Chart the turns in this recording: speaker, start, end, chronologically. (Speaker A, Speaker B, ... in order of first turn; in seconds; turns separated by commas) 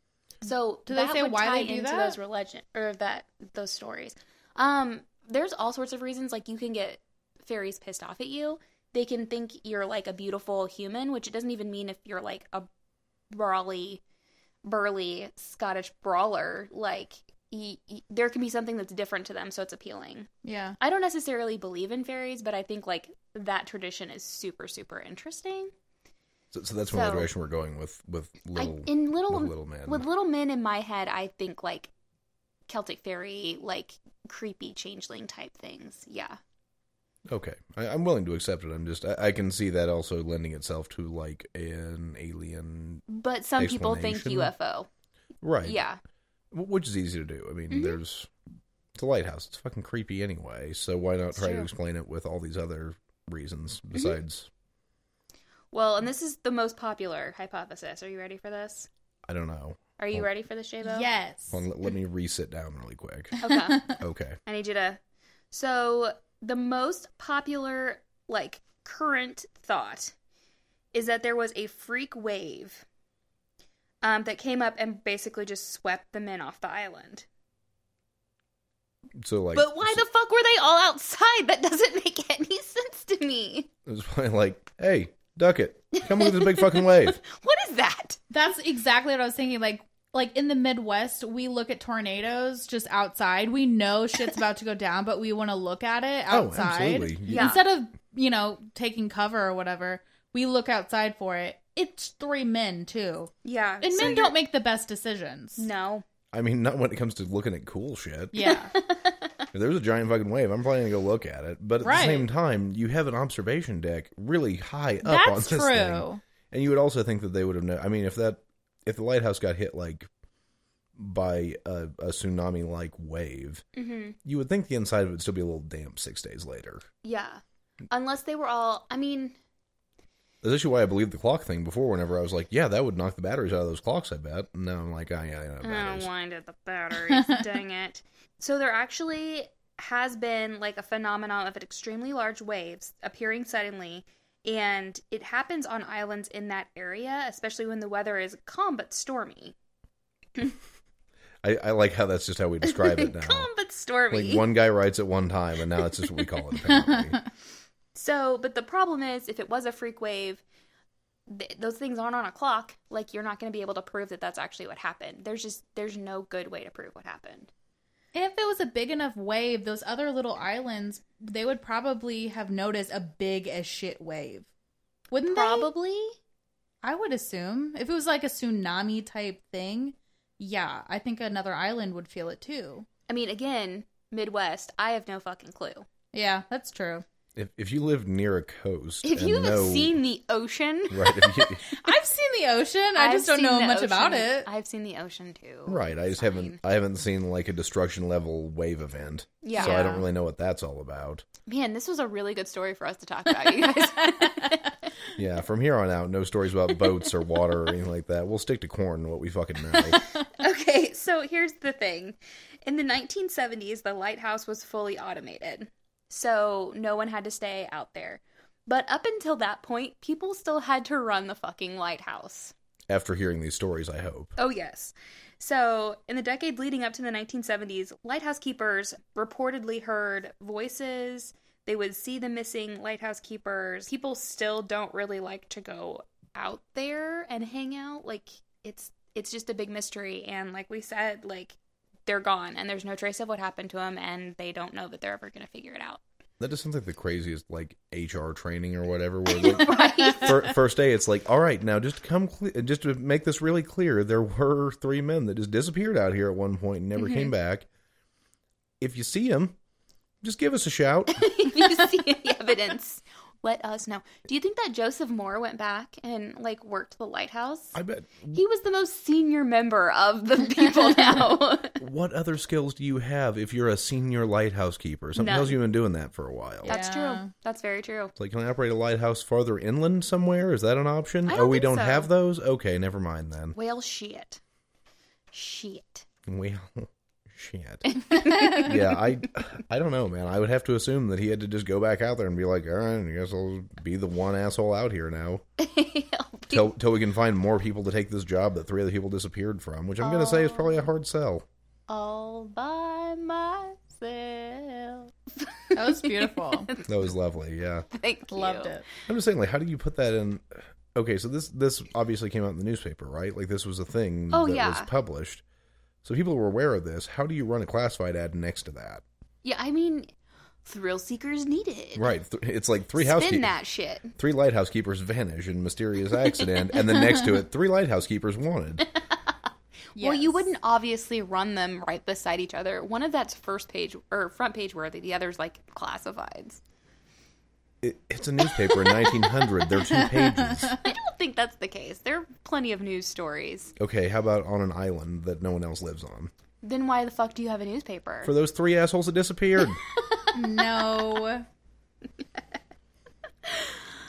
Speaker A: 0.4-12.7, Speaker B: 0.9-2.2, Speaker A: 13.3-14.0, Speaker A: 14.7-20.3, Speaker B: 20.4-20.8, Speaker A: 20.8-25.7, Speaker C: 26.5-30.1, Speaker A: 26.9-27.3, Speaker A: 28.6-31.9, Speaker A: 32.7-36.4, Speaker C: 37.3-43.0, Speaker A: 43.1-44.9, Speaker C: 43.6-44.5, Speaker C: 45.4-45.8, Speaker A: 45.6-46.0, Speaker C: 46.5-48.3, Speaker A: 47.7-48.0, Speaker C: 49.0-54.5, Speaker A: 51.3-51.7, Speaker A: 55.7-58.9, Speaker C: 59.3-60.3, Speaker A: 60.0-61.1, Speaker B: 60.8-61.6, Speaker C: 61.5-64.4, Speaker A: 63.4-63.9, Speaker A: 64.5-65.0, Speaker A: 65.5-70.2, Speaker A: 70.9-72.8, Speaker A: 74.0-77.3, Speaker C: 79.2-80.0, Speaker A: 79.5-83.7, Speaker C: 83.9-87.2, Speaker A: 86.0-88.2, Speaker B: 88.3-105.7, Speaker C: 96.3-97.6, Speaker A: 97.3-97.6, Speaker A: 103.4-104.3, Speaker A: 105.6-106.1, Speaker C: 106.3-108.5, Speaker B: 108.3-108.7, Speaker A: 108.4-109.3, Speaker C: 109.5-120.1, Speaker B: 111.8-112.3, Speaker B: 115.0-116.2, Speaker C: 121.0-123.6, Speaker A: 123.8-124.2, Speaker C: 124.2-126.9, Speaker A: 127.0-129.4, Speaker C: 130.4-136.1, Speaker A: 135.6-149.6, Speaker C: 151.4-153.5, Speaker A: 152.6-154.5, Speaker C: 154.1-157.2, Speaker A: 157.9-160.4, Speaker A: 161.3-167.5, Speaker B: 168.2-174.5, Speaker B: 175.1-175.7, Speaker A: 175.3-176.2, Speaker B: 176.8-182.9, Speaker A: 183.1-185.9, Speaker B: 186.1-187.0, Speaker C: 187.3-190.0, Speaker A: 189.0-192.0, Speaker C: 190.9-191.7, Speaker B: 191.8-194.5, Speaker A: 193.0-196.6, Speaker C: 195.7-201.3, Speaker A: 199.4-199.9, Speaker B: 199.6-200.0, Speaker A: 201.5-204.8, Speaker C: 205.2-210.0, Speaker A: 210.3-222.5, Speaker C: 222.9-224.3, Speaker A: 224.4-246.0, Speaker C: 246.4-257.7, Speaker A: 249.3-250.5, Speaker A: 257.0-257.3, Speaker C: 258.8-259.6, Speaker C: 260.2-261.3, Speaker A: 261.1-267.8, Speaker C: 267.8-268.4, Speaker A: 268.3-271.8, Speaker C: 271.8-276.8, Speaker A: 275.1-275.6, Speaker A: 276.6-278.1, Speaker B: 276.7-277.3, Speaker C: 278.2-283.6, Speaker A: 281.3-282.1, Speaker A: 283.6-284.4, Speaker A: 285.3-286.1, Speaker C: 286.3-295.4, Speaker A: 287.9-289.0, Speaker A: 295.6-296.7, Speaker C: 296.5-301.5, Speaker A: 300.0-300.9, Speaker A: 301.9-307.1, Speaker B: 305.8-306.7, Speaker C: 306.9-307.9, Speaker A: 307.9-308.8, Speaker B: 308.3-308.9, Speaker C: 309.1-315.4, Speaker A: 314.3-314.9, Speaker C: 316.0-319.0, Speaker A: 319.4-320.1, Speaker A: 320.6-322.1, Speaker C: 321.9-323.5, Speaker A: 323.0-324.1, Speaker C: 324.1-328.9, Speaker B: 330.0-330.5, Speaker A: 330.0-336.6, Speaker C: 337.8-340.8, Speaker A: 338.4-339.3, Speaker B: 339.9-340.8, Speaker A: 340.8-343.7, Speaker C: 343.8-346.3, Speaker A: 346.6-348.3, Speaker C: 348.2-349.8, Speaker B: 350.3-351.4, Speaker A: 353.5-353.8